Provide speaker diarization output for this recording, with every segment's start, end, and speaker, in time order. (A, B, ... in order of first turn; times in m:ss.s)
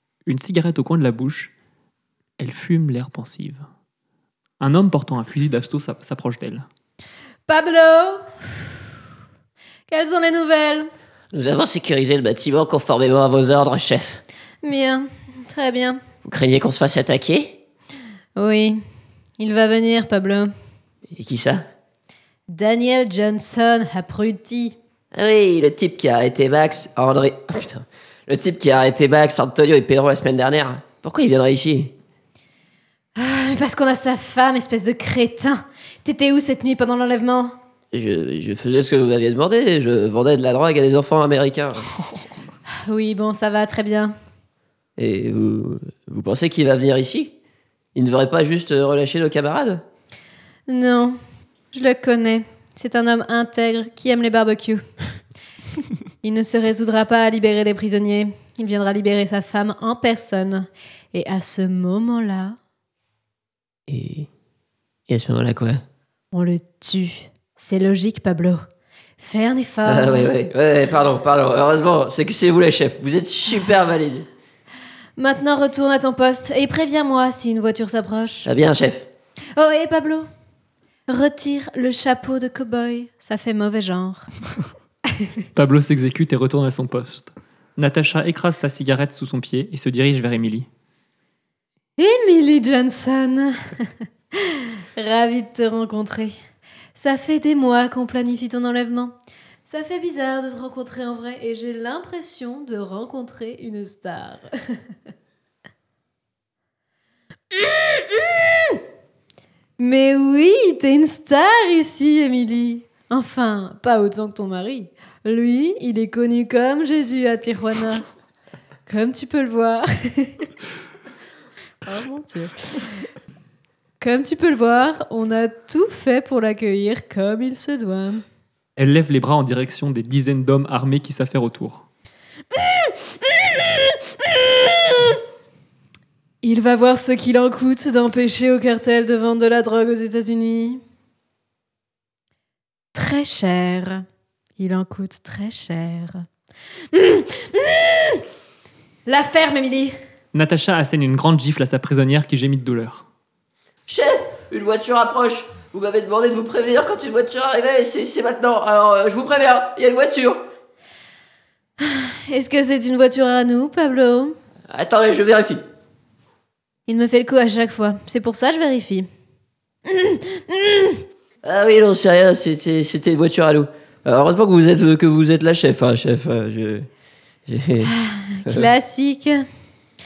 0:00.3-0:01.5 A
0:02.4-0:03.7 A
0:04.6-0:06.7 A
0:07.5-0:08.6 B
0:09.9-0:10.9 B
0:11.3-0:14.2 C
0:14.6-0:16.0 B
0:16.2-0:17.6 C
0:18.4-0:18.8 B
0:19.4-0:20.5 B
0:21.1-0:21.6 C
0:22.5-0:24.8 B
0:25.1-0:31.9 C
0:33.2-0:37.6 B
0:37.9-0:41.9 C
0:42.9-0:44.1 B
0:45.0-0:47.3 C
0:48.0-0:49.8 C
0:50.7-0:51.2 B
0:51.7-0:54.9 B
0:56.2-1:02.6 B
1:03.9-1:04.3 C
1:05.1-1:05.8 C
1:06.3-1:08.6 B
1:09.2-1:10.4 B
1:09.8-1:14.3 C
1:15.2-1:18.5 B
1:18.4-1:19.1 C
1:19.6-1:20.3 B
1:21.1-1:24.3 B
1:25.6-1:30.7 A
1:32.0-1:33.9 B
1:34.4-1:36.4 B
1:37.0-1:39.2 B
1:39.7-1:44.8 B
1:47.5-1:48.8 B
1:49.8-1:58.0 B
1:58.9-2:00.5 B
2:01.8-2:03.1 B
2:04.0-2:08.2 B
2:08.8-2:11.9 A
2:12.5-2:15.2 B
2:16.4-2:20.8 B
2:22.9-2:24.0 B
2:24.6-2:26.2 B
2:26.9-2:28.2 B
2:29.1-2:30.0 B
2:30.3-2:33.1 A
2:33.9-2:40.5 C
2:41.8-2:44.4 B
2:44.7-2:45.6 C
2:46.9-2:49.1 B
2:49.9-2:51.0 B
2:51.4-2:56.9 C
2:57.5-2:57.9 C
2:57.8-2:59.5 B